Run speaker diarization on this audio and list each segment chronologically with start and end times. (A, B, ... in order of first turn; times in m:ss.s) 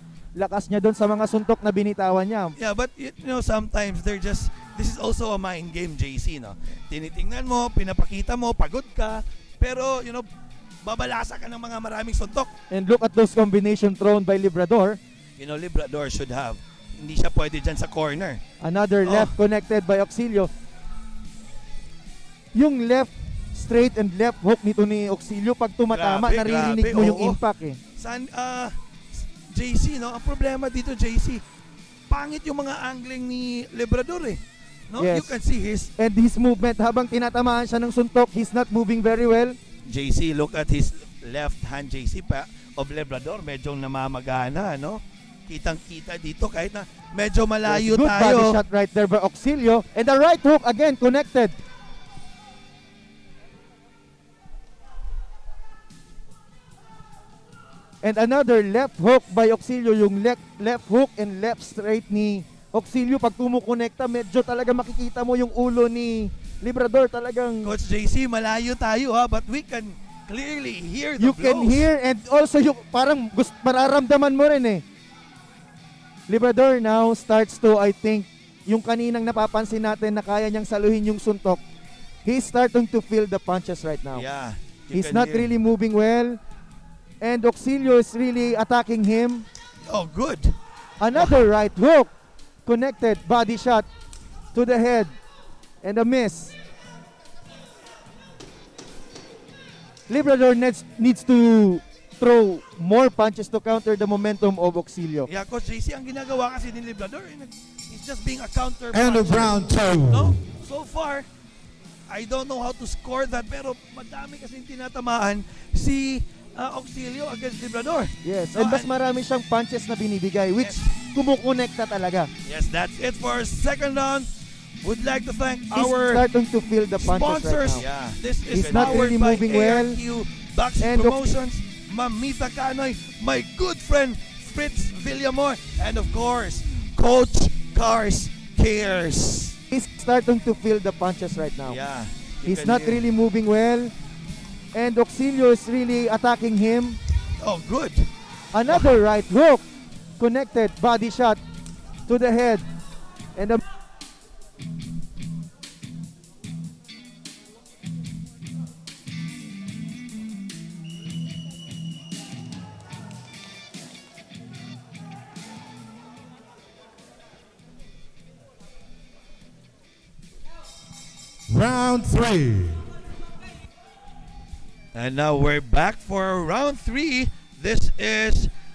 0:00.4-0:02.5 A
0:02.6-0:10.3 B
0:10.8-0:12.5 B
0:12.7-0:15.0 A
0:15.4-0:18.4 B
0:18.6-0:20.5 A
0:19.0-0:19.4 B
0:22.5-0:27.8 A
0:25.9-0:27.4 B
0:28.0-0:31.4 B
0:32.1-0:35.9 B
0:35.0-0:35.4 A
0:36.0-0:39.6 A
0:39.9-0:48.6 B
0:47.6-0:51.6 A
0:58.0-1:07.7 A
1:07.6-1:11.9 B
1:11.2-1:14.8 A
1:16.3-1:21.6 A
1:22.2-1:24.3 A
1:24.1-1:25.5 B
1:24.9-1:26.4 A
1:27.2-1:29.5 A
1:29.8-1:30.6 B
1:31.0-1:32.1 A
1:31.1-1:31.4 B
1:32.7-1:33.9 A
1:34.5-1:35.2 A
1:35.8-1:36.6 A
1:40.1-1:45.3 A
1:45.3-1:51.3 B
1:48.9-1:50.4 C
1:52.1-1:58.9 B
1:58.2-2:02.3 A
2:00.6-2:00.9 B
2:02.4-2:04.3 B
2:04.8-2:06.2 B
2:05.7-2:07.9 A
2:07.0-2:19.6 B
2:08.5-2:10.0 A
2:10.8-2:11.3 A
2:19.7-2:21.8 A
2:21.7-2:23.0 B
2:22.4-2:23.9 A
2:24.7-2:27.0 A
2:27.4-2:28.1 B
2:28.5-2:29.6 A
2:28.7-2:28.9 B
2:30.2-2:31.4 A
2:32.1-2:32.7 A
2:33.4-2:33.6 A
2:51.5-2:52.9 C
2:54.9-2:58.5 B